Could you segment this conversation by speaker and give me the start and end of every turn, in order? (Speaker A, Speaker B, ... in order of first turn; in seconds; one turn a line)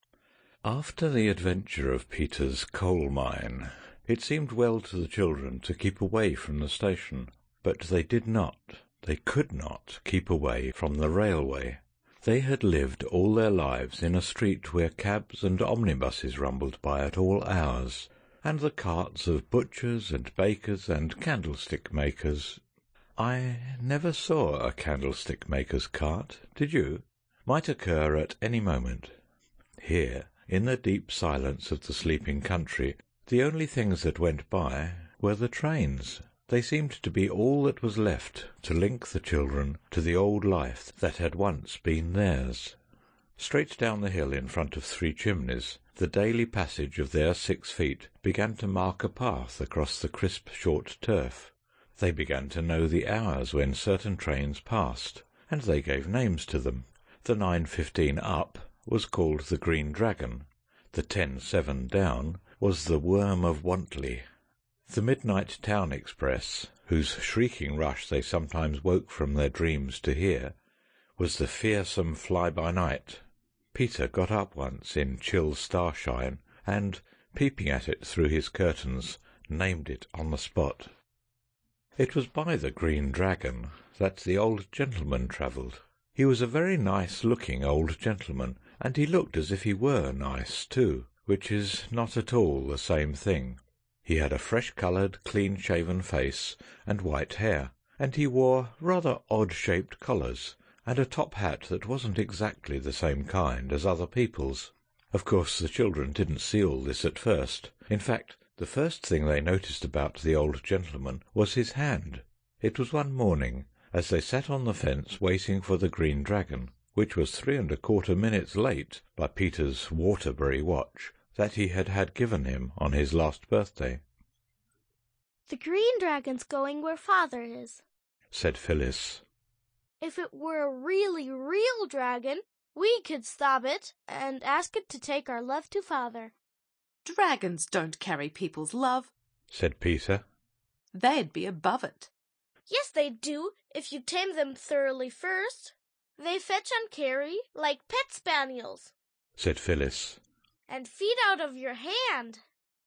Speaker A: 0.6-22.6
Speaker A: 23.2-29.1
Speaker A: 29.8-42.8
Speaker A: 43.4-64.2
Speaker A: 64.9-70.5
Speaker A: 71.2-73.2
Speaker A: 73.7-80.9
Speaker A: 82.0-124.0
Speaker B: 125.5-127.8
Speaker A: 128.3-129.2
Speaker B: 130.0-136.3
Speaker C: 137.0-139.1
Speaker A: 139.5-140.2
Speaker C: 140.9-142.1
Speaker B: 142.7-148.9
Speaker A: 149.4-150.2
Speaker B: 150.7-152.4